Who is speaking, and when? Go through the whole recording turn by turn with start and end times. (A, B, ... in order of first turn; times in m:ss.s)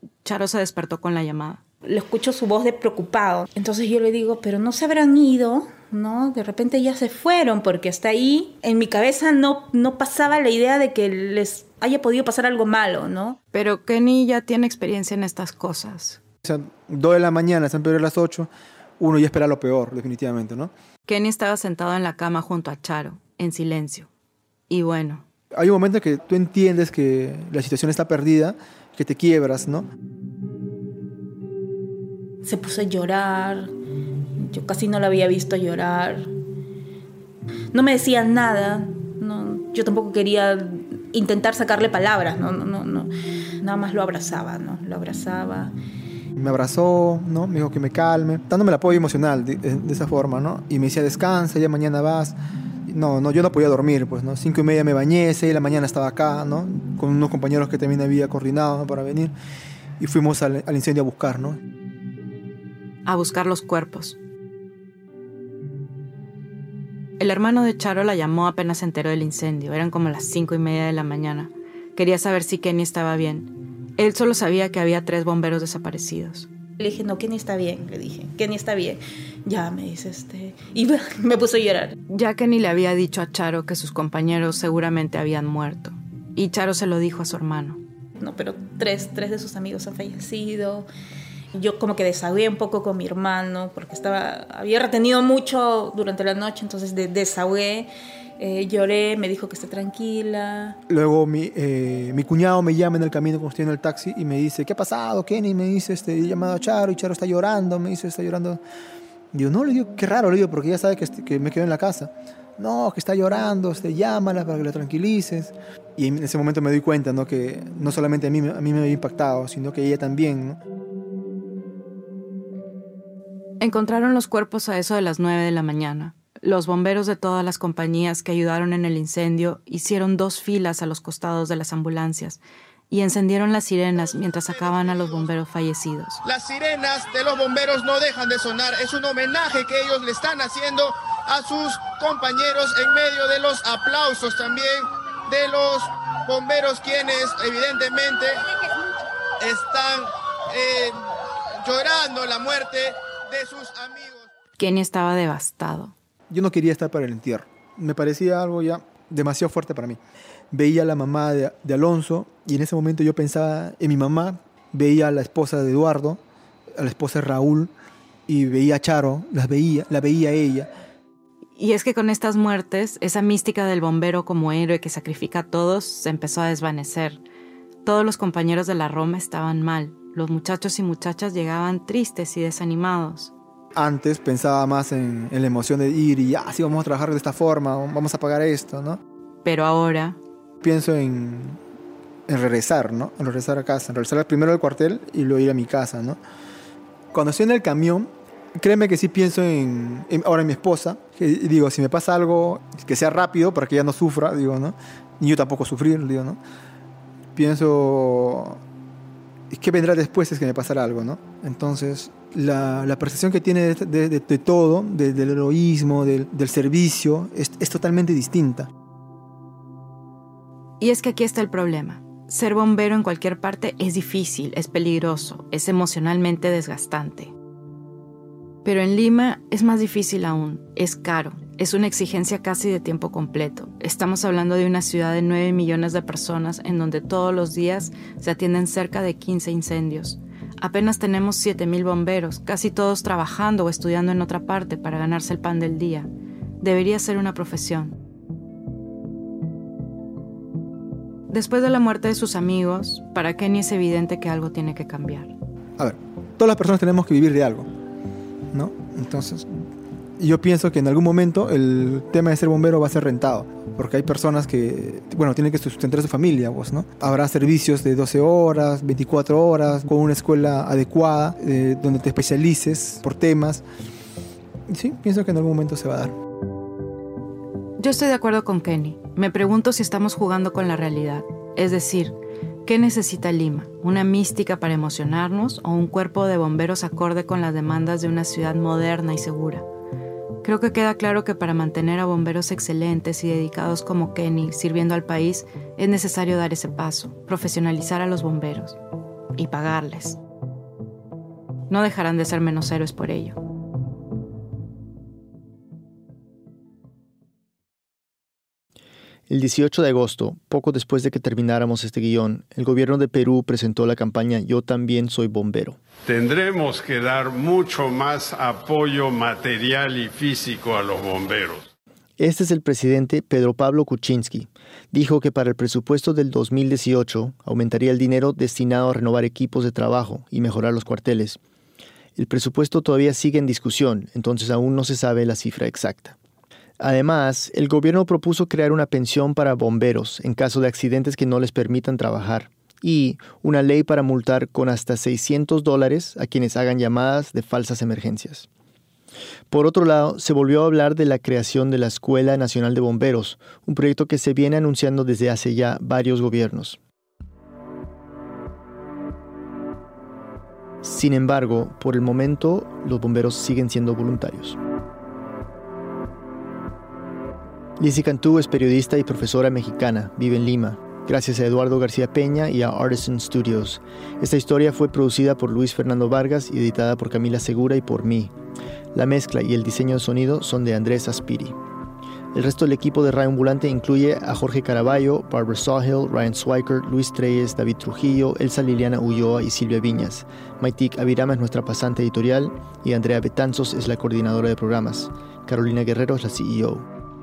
0:00.2-0:01.6 A
0:01.8-0:13.4 B
0:13.5-0:16.2 A
0:16.4-0:20.7 C
0:21.0-0:24.1 A
0:24.7-0:25.2 A
0:25.5-0:29.9 C
0:32.4-0:33.7 B
0:34.4-0:36.3 B
0:37.7-0:43.1 B
0:43.6-0:45.7 B
0:46.4-0:52.4 C
0:52.9-0:59.3 C
1:00.0-1:01.6 C
1:03.0-1:04.2 A
1:07.2-1:16.5 A
1:16.8-1:22.0 B
1:22.1-1:27.8 A
1:28.2-1:30.9 B
1:31.5-1:40.8 B
1:40.9-1:48.6 C
1:49.3-2:00.6 C
2:03.6-2:16.2 A
2:14.4-2:15.3 D
2:16.2-2:28.6 D
2:29.4-2:31.0 D
2:31.6-2:34.3 D
2:34.6-2:35.9 A
2:36.3-2:40.0 C
2:40.5-2:46.2 C
2:46.8-2:47.7 C
2:48.3-2:50.7 C
2:51.6-2:57.2 A
2:57.8-3:03.3 A
3:03.8-3:09.0 C
3:09.4-3:10.2 A
3:10.6-3:11.6 C
3:12.3-3:16.2 C
3:17.1-3:26.4 C
3:27.3-3:28.6 C
3:29.5-3:38.7 C
3:40.8-3:47.3 A
3:48.6-4:06.1 A
4:06.6-4:07.9 A
4:11.3-4:15.3 A
4:15.8-4:17.7 C
4:18.5-4:19.6 C
4:20.2-4:33.6 C
4:34.7-4:36.1 C
4:37.8-4:49.6 A
4:50.4-4:58.8 A
4:59.4-5:00.2 A
5:01.7-5:03.4 A
5:09.3-5:15.8 E
5:16.1-5:21.7 F
5:22.2-5:31.4 E
5:32.2-5:36.2 E
5:36.8-5:48.5 E
5:49.5-5:56.8 E
6:00.8-6:04.6 E
6:07.8-6:18.3 E
6:18.9-6:21.6 E
6:22.3-6:36.8 E